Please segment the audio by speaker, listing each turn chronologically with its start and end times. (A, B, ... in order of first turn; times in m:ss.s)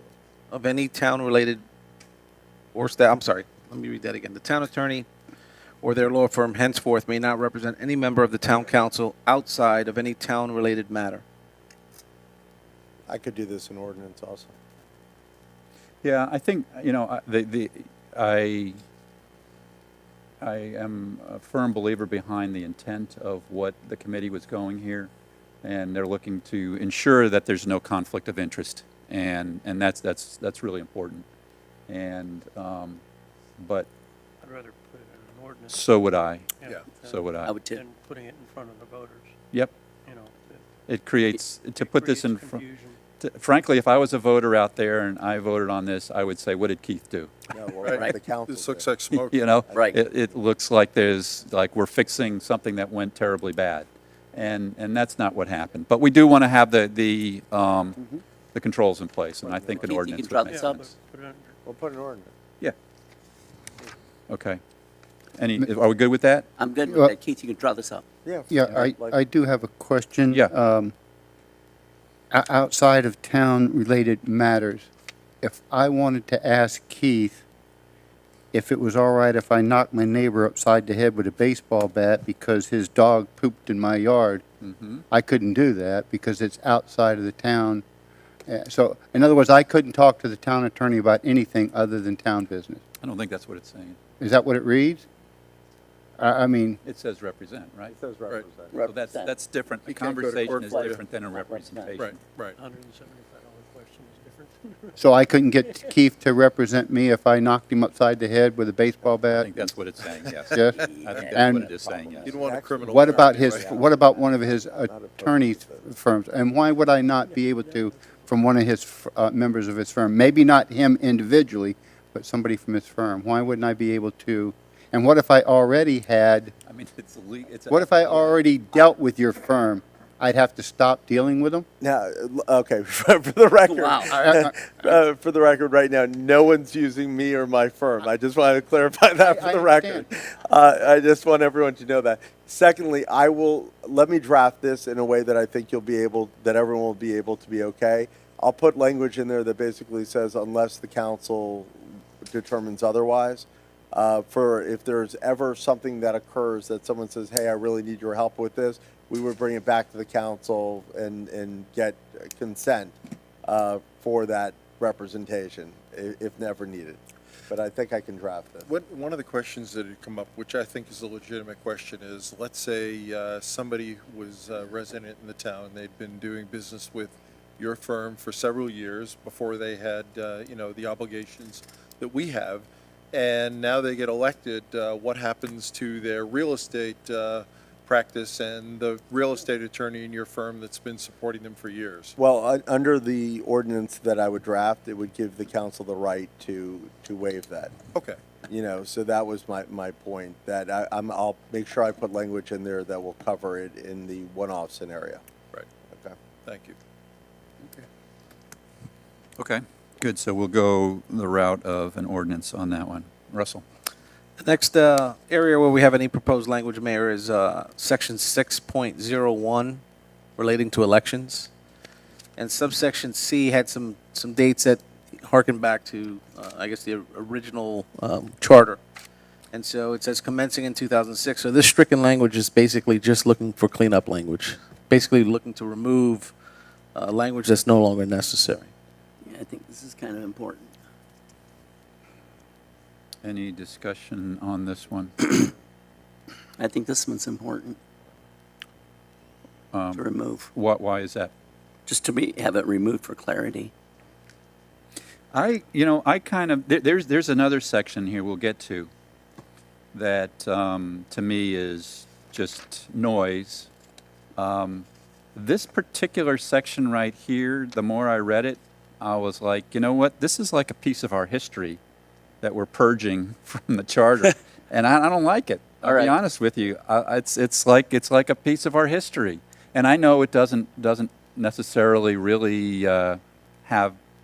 0:00.5-0:01.6 A
0:02.8-0:05.1 A
0:05.8-0:11.2 A
0:13.1-0:14.5 B
0:16.0-0:18.8 C
0:20.4-0:25.1 C
0:25.6-0:31.2 C
0:31.9-0:33.0 C
0:33.6-0:33.9 C
0:34.4-0:35.9 D
0:35.7-0:37.5 C
0:36.6-0:39.3 D
0:36.7-0:36.9 E
0:37.5-0:37.8 F
0:40.1-0:40.6 D
0:40.9-0:42.6 C
0:41.8-0:43.0 D
0:43.2-0:47.3 C
0:47.5-0:48.9 B
0:47.8-0:49.6 E
0:49.3-0:58.0 C
0:49.7-0:50.0 B
0:49.7-0:50.0 F
0:58.5-1:00.8 C
0:59.4-1:00.0 B
0:59.8-1:00.9 F
1:00.5-1:01.5 D
1:01.6-1:02.3 B
1:04.3-1:04.6 C
1:05.4-1:06.5 C
1:06.6-1:08.0 F
1:06.9-1:07.1 G
1:08.2-1:09.2 B
1:08.5-1:10.9 G
1:12.3-1:14.9 G
1:15.4-1:17.4 G
1:18.5-1:24.4 G
1:24.6-1:25.0 C
1:25.1-1:27.8 G
1:28.5-1:32.8 G
1:33.0-1:34.0 C
1:34.2-1:35.0 G
1:36.2-1:36.8 G
1:36.8-1:38.0 C
1:37.9-1:38.8 B
1:38.7-1:39.3 F
1:38.8-1:42.2 C
1:39.9-1:41.0 E
1:40.6-1:42.0 F
1:42.0-1:42.6 E
1:42.6-1:45.0 D
1:45.0-1:49.6 G
1:49.3-1:52.3 C
1:50.5-1:51.7 G
1:50.8-1:52.1 F
1:52.2-1:53.7 E
1:52.3-1:55.8 B
1:52.9-2:06.5 G
2:06.6-2:08.4 C
2:07.7-2:11.7 G
2:11.8-2:48.7 B
2:13.7-2:14.1 F
2:14.1-2:14.6 G
2:19.2-2:20.1 G
2:48.7-3:12.2 E
3:12.2-3:17.8 B
3:17.9-3:18.2 E
3:18.4-3:25.2 B
3:25.9-3:26.2 B
3:26.4-3:26.8 E
3:29.4-3:33.6 C
3:34.4-3:39.8 A
3:40.4-3:41.5 A
3:42.4-3:48.8 A
3:49.5-3:56.3 A
3:57.0-3:58.7 A
3:59.3-4:00.7 F
4:03.2-4:05.5 C
4:06.6-4:07.8 F
4:09.7-4:11.3 C
4:10.0-4:10.5 F
4:11.9-4:13.7 F
4:15.3-4:18.9 C
4:19.9-4:23.7 C
4:24.4-4:31.8 C
4:32.4-4:44.0 C
4:35.8-4:36.2 F